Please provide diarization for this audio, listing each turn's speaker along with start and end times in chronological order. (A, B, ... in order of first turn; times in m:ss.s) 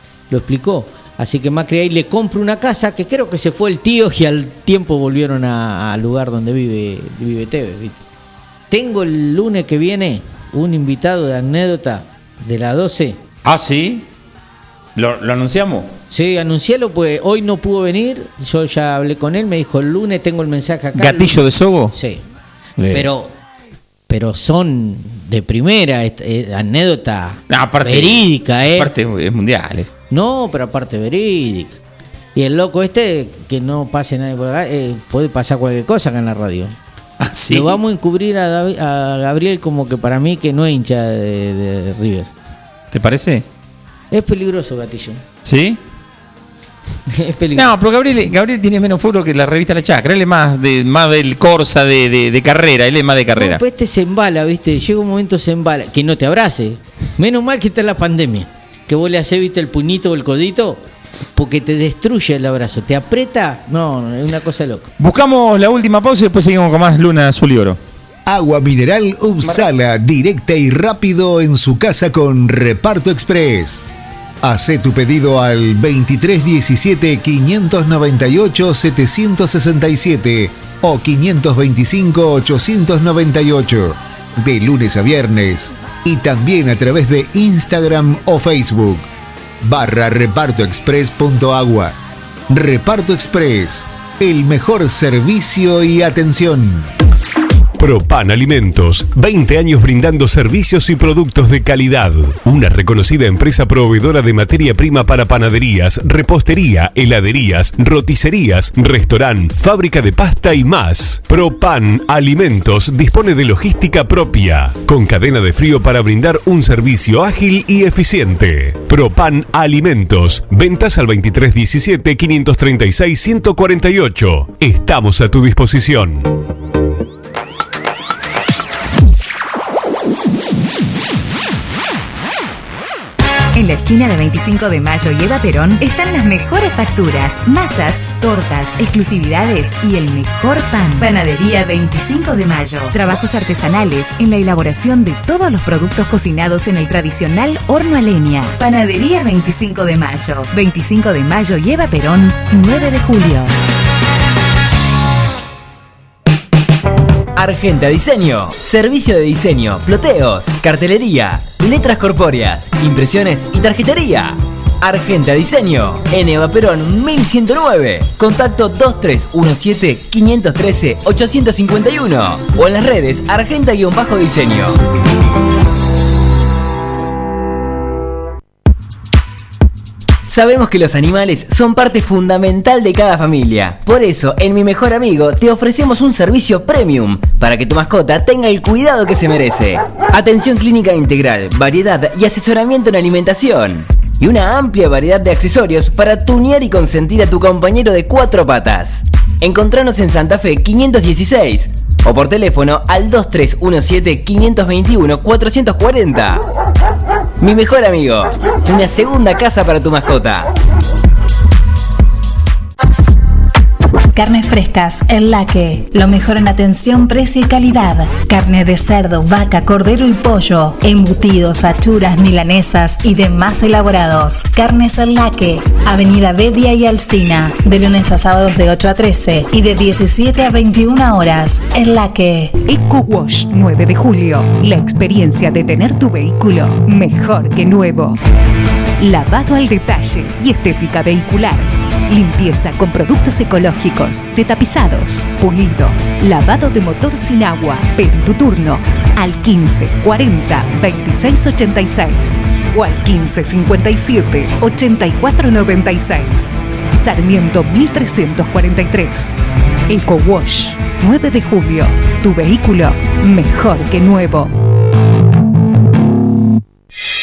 0:00.3-0:08.0 A
0:08.7-0:13.2 A
0:13.4-0:14.0 B
0:15.0-0:15.9 B
0:16.1-0:22.2 A
0:21.0-0:21.9 B
0:22.8-0:23.1 B
0:22.9-0:23.3 A
0:24.1-0:28.9 A
0:27.5-0:29.9 B
0:30.1-0:31.8 A
0:32.4-0:36.8 A
0:37.2-0:37.8 B
0:37.5-0:42.3 A
0:42.9-0:43.4 B
0:44.1-0:45.2 A
0:45.4-0:45.8 B
0:47.1-0:47.7 A
0:47.5-0:53.6 B
0:53.3-1:00.8 A
1:01.3-1:04.9 A
1:05.0-1:07.8 B
1:08.2-1:13.8 C
1:14.4-1:29.0 C
1:29.6-1:31.9 C
1:32.5-1:36.9 C
1:37.8-2:06.3 D
2:13.5-2:33.5 E
2:37.3-2:54.8 F
3:00.3-3:26.4 F
3:27.4-3:30.5 F
3:34.1-3:52.6 G
3:52.6-3:58.2 H
3:59.0-4:19.3 H
4:19.9-4:24.5 H